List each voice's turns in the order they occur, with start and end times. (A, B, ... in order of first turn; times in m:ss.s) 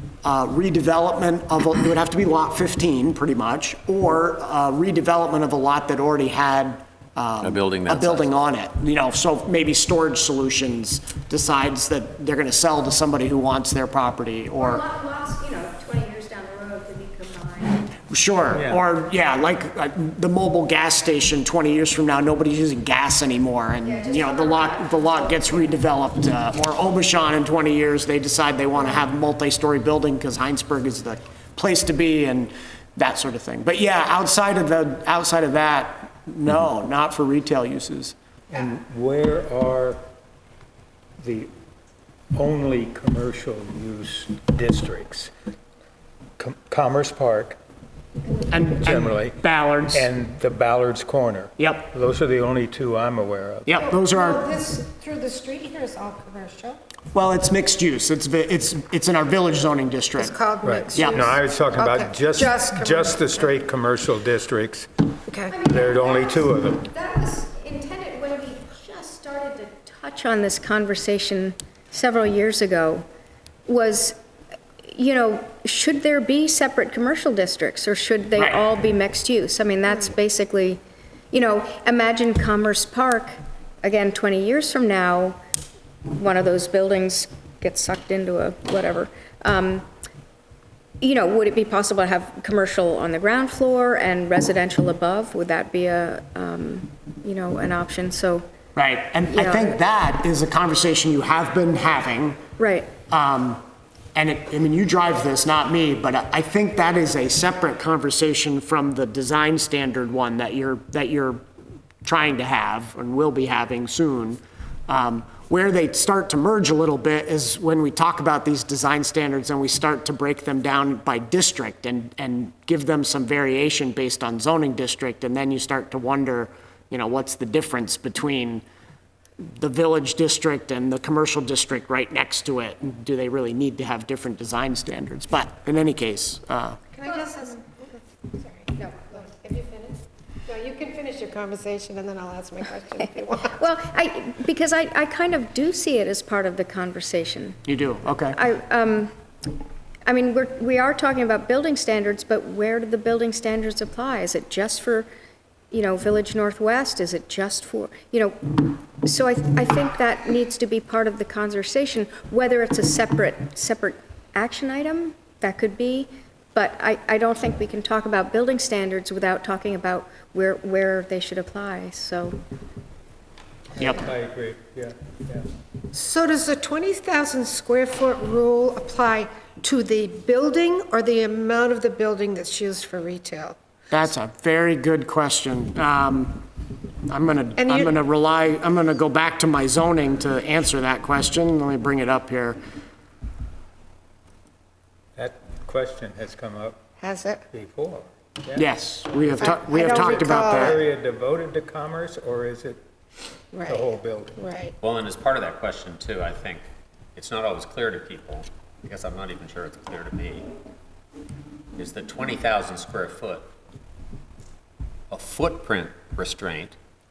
0:00.2-0:14.8 A
0:07.4-0:08.3 B
0:14.6-0:17.9 C
0:18.1-0:38.2 A
0:18.5-0:18.8 D
0:23.8-0:25.6 C
0:38.5-0:40.0 D
0:41.2-0:41.5 D
0:42.4-0:45.3 D
0:46.4-0:47.6 D
0:48.5-0:50.1 A
0:48.8-0:49.4 D
0:49.9-0:53.8 D
0:51.6-0:51.9 A
0:53.7-0:54.5 A
0:53.9-0:55.0 C
0:55.0-0:56.8 E
0:57.1-1:00.4 A
1:00.2-1:01.3 E
1:00.6-1:04.9 D
1:00.9-1:01.3 A
1:02.0-1:02.8 E
1:05.3-1:13.1 C
1:05.6-1:06.9 D
1:13.7-1:14.2 C
1:14.8-1:20.8 C
1:18.4-1:18.6 A
1:21.3-1:25.4 C
1:26.1-1:29.9 C
1:31.0-1:38.5 C
1:38.8-1:42.4 A
1:39.3-1:39.8 C
1:42.6-1:42.9 C
1:43.1-1:43.6 A
1:44.2-1:51.4 A
1:52.0-2:08.6 A
2:09.4-2:16.8 A
2:17.0-2:17.8 C
2:18.7-2:20.7 C
2:20.8-2:21.9 E
2:22.4-2:27.6 C
2:27.7-2:28.4 A
2:28.3-2:29.1 C
2:30.1-2:35.1 C
2:35.7-2:52.4 C
2:53.8-2:54.0 A
2:53.8-2:55.5 D
2:55.9-3:03.6 E
3:03.9-3:06.4 A
3:07.1-3:12.6 A
3:07.6-3:07.9 E
3:15.2-3:16.8 D
3:17.0-3:17.4 E
3:17.5-3:18.7 D
3:18.6-3:20.8 A
3:19.2-3:22.8 D
3:19.6-3:20.5 E
3:19.8-3:20.8 C
3:23.6-3:24.4 D
3:24.8-3:26.6 B
3:27.2-3:30.5 B
3:31.8-3:33.5 B
3:35.1-3:36.8 B